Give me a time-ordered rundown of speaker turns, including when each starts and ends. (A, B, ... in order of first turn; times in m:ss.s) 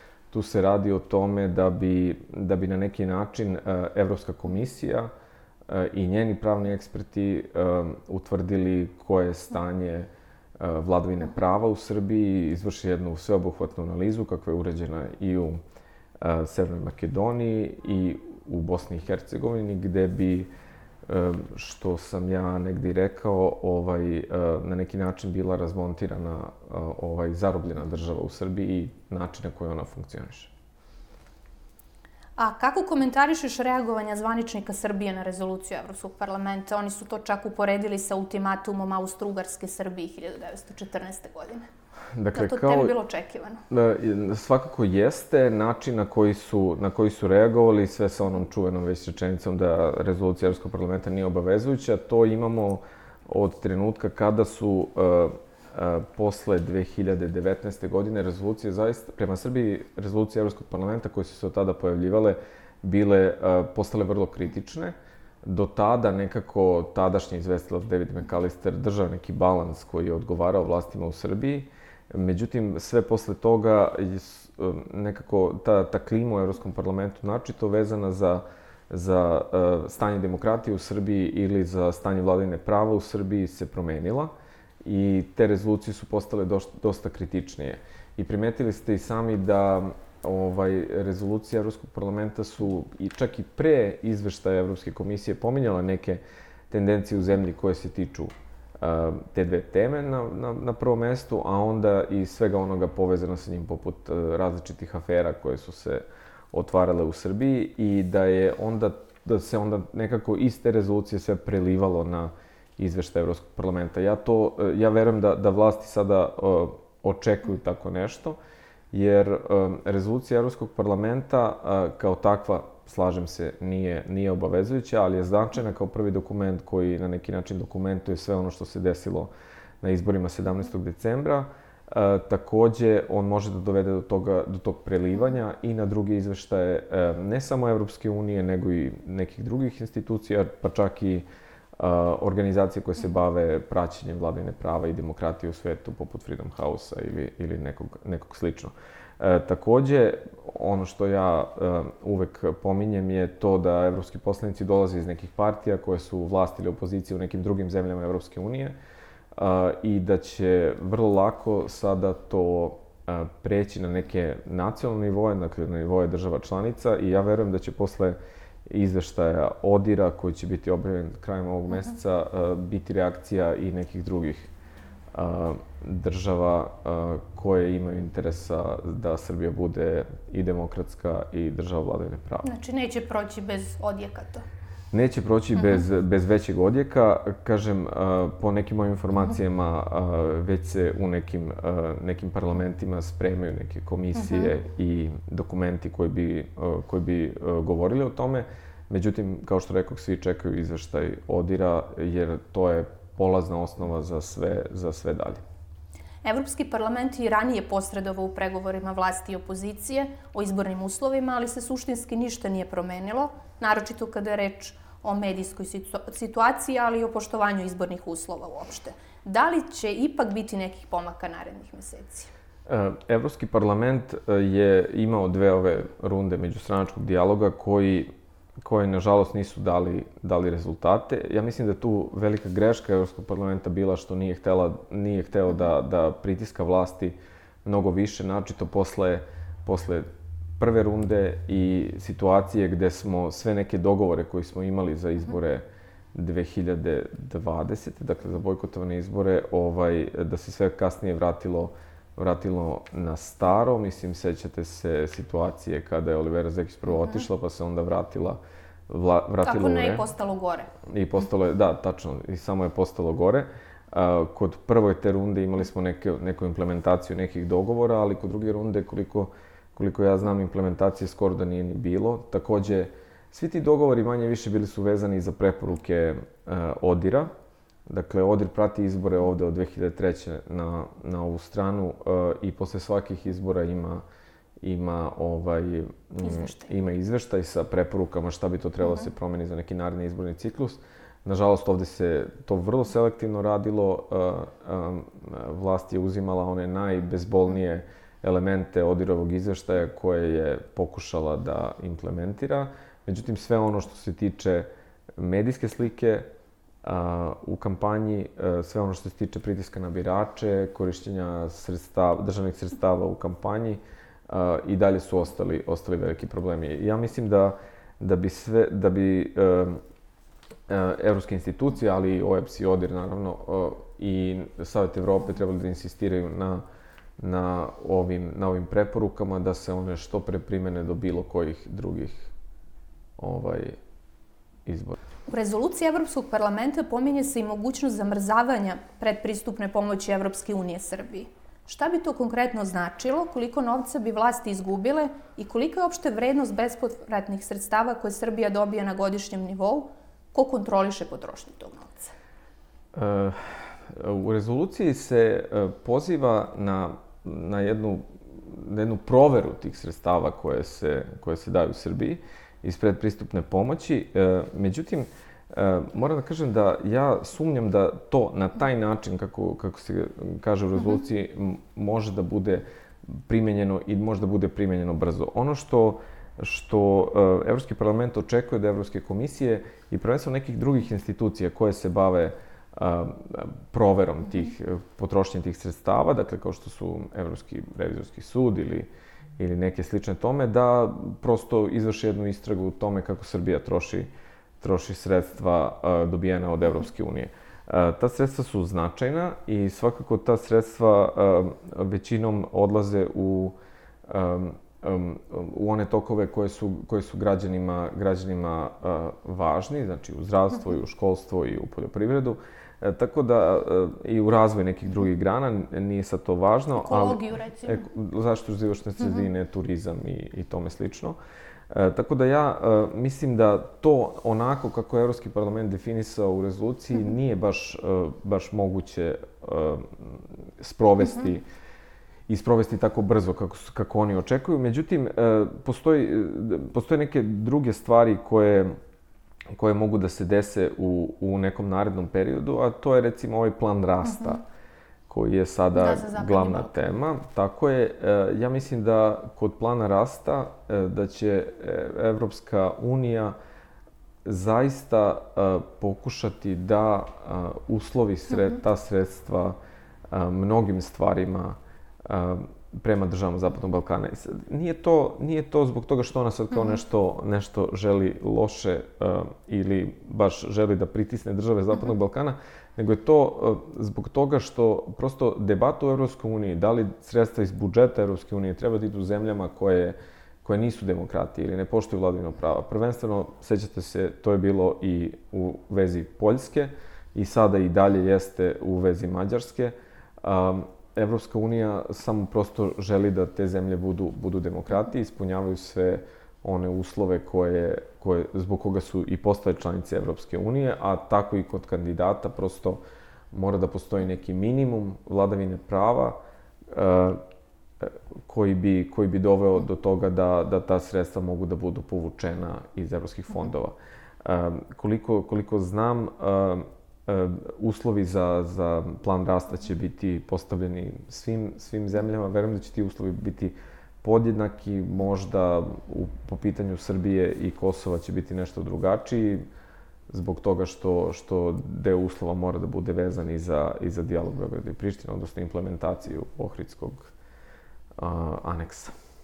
0:00.3-0:05.1 A
0:05.7-0:15.6 A
0:16.2-0:20.5 A
0:21.1-0:30.5 A
0:32.4-0:41.7 B
0:42.1-0:42.9 A
0:42.3-0:43.6 B
0:43.7-1:24.3 A
1:24.8-1:58.4 A
1:58.9-2:09.3 A
2:09.8-2:21.2 A
2:21.8-2:38.7 A
2:39.3-2:54.5 A
2:55.1-3:02.5 A
3:02.4-3:04.4 B
3:04.9-3:25.4 A
3:05.5-3:05.8 B
3:14.2-3:14.5 B
3:26.2-3:42.3 B
3:42.7-3:48.1 A
3:48.6-4:00.1 A
4:00.6-4:20.1 A
4:19.4-4:20.7 B
4:20.9-4:37.3 A
4:37.9-4:44.0 A
4:44.6-5:06.3 A
4:46.2-4:46.6 B
5:06.8-5:19.8 A
5:20.7-5:26.6 A
5:27.2-5:32.3 A
5:33.2-5:33.8 A
5:34.6-5:35.0 A
5:35.3-5:52.1 B
5:52.9-6:12.6 A
6:13.3-6:34.1 A
6:34.6-6:43.5 A
6:44.1-7:01.2 A
6:56.8-6:57.8 B
7:01.7-7:11.4 A
7:12.3-7:18.7 A
7:19.5-7:24.4 A
7:25.1-7:33.3 A
7:25.7-7:27.0 B
7:34.2-7:39.6 A
7:40.1-8:22.8 A
8:23.3-8:26.2 A
8:26.7-8:27.2 A
8:27.8-8:49.4 A
8:50.1-8:57.1 A
8:58.0-8:58.9 A